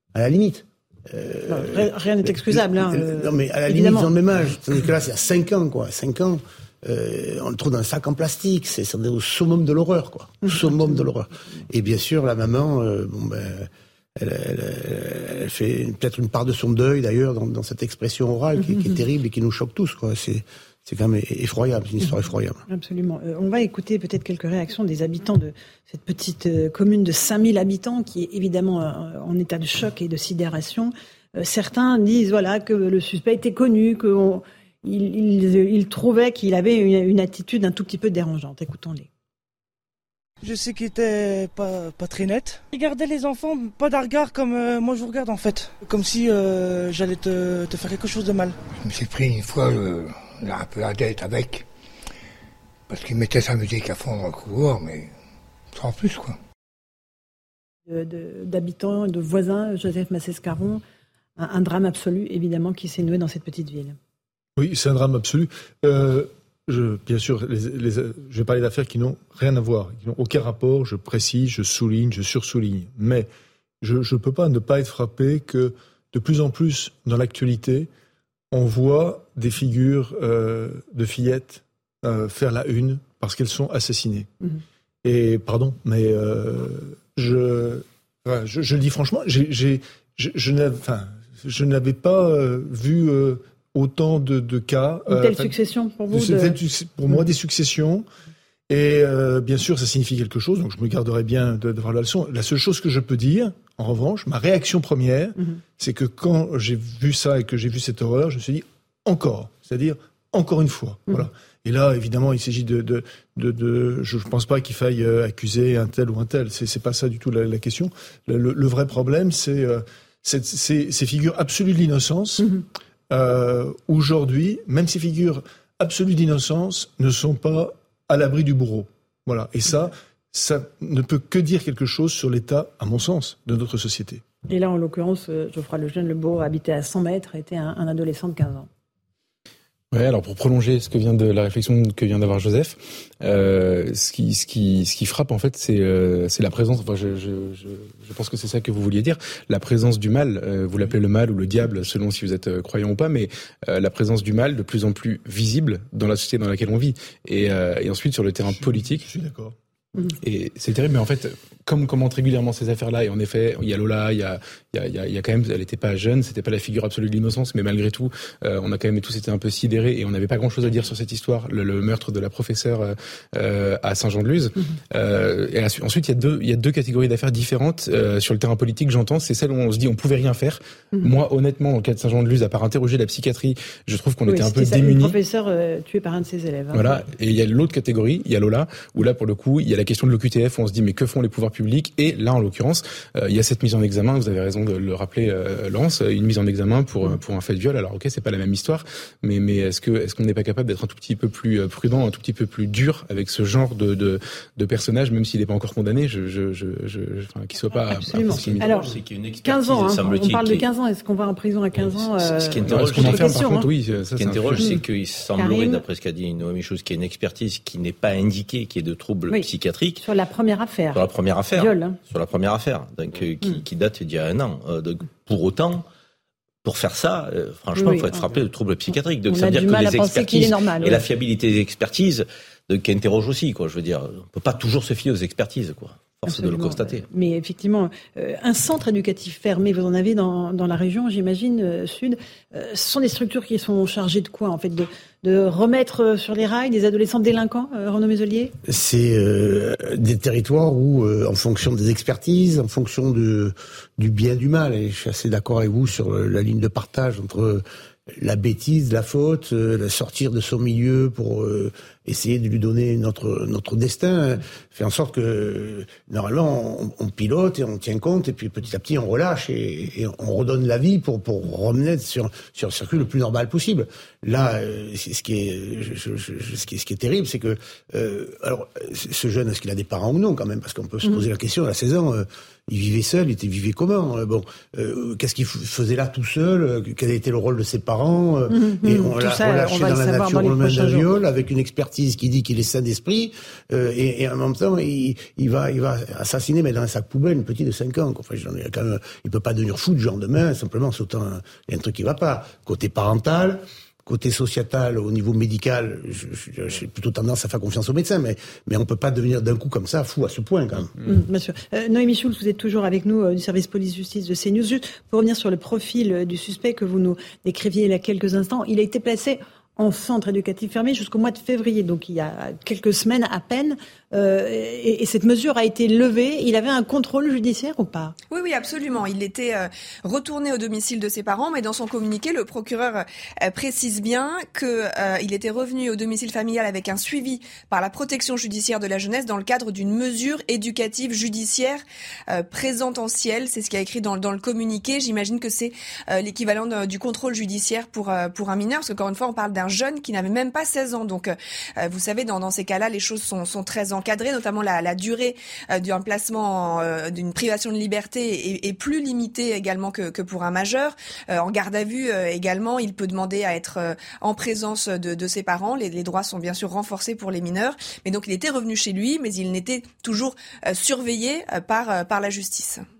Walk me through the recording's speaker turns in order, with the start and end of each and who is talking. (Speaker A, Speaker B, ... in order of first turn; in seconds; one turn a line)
Speaker A: 0.1-22.6
Speaker B: 1.5-4.1
Speaker B: 10.5-10.9
Speaker B: 18.6-19.0
Speaker B: 22.7-39.1
Speaker C: 40.4-48.6
Speaker D: 48.8-51.7
Speaker D: 52.9-55.1
Speaker D: 55.7-56.4
Speaker B: 57.9-60.8
Speaker B: 61.4-64.0
Speaker E: 64.6-73.3
Speaker E: 73.8-77.9
Speaker E: 78.5-84.3
Speaker E: 85.0-95.5
Speaker B: 95.1-96.5
Speaker E: 96.1-98.0
Speaker E: 98.7-122.5
Speaker E: 123.1-134.2
Speaker B: 134.5-138.7
Speaker F: 139.9-159.0
Speaker E: 158.4-159.5
Speaker F: 160.2-185.2
Speaker B: 184.3-187.0
Speaker F: 186.7-208.9
Speaker B: 207.7-208.9
Speaker G: 208.3-210.6
Speaker B: 209.4-213.7
Speaker G: 211.7-213.4
Speaker F: 212.7-214.8
Speaker G: 214.2-220.0
Speaker B: 215.4-215.8
Speaker B: 220.0-221.0
Speaker G: 220.9-225.8
Speaker B: 221.6-222.0
Speaker G: 226.6-237.0
Speaker B: 227.8-228.3
Speaker B: 228.9-231.0
Speaker B: 236.3-248.5
Speaker A: 248.6-310.9
Speaker B: 288.5-291.1
Speaker B: 311.0-328.1
Speaker H: 328.3-372.8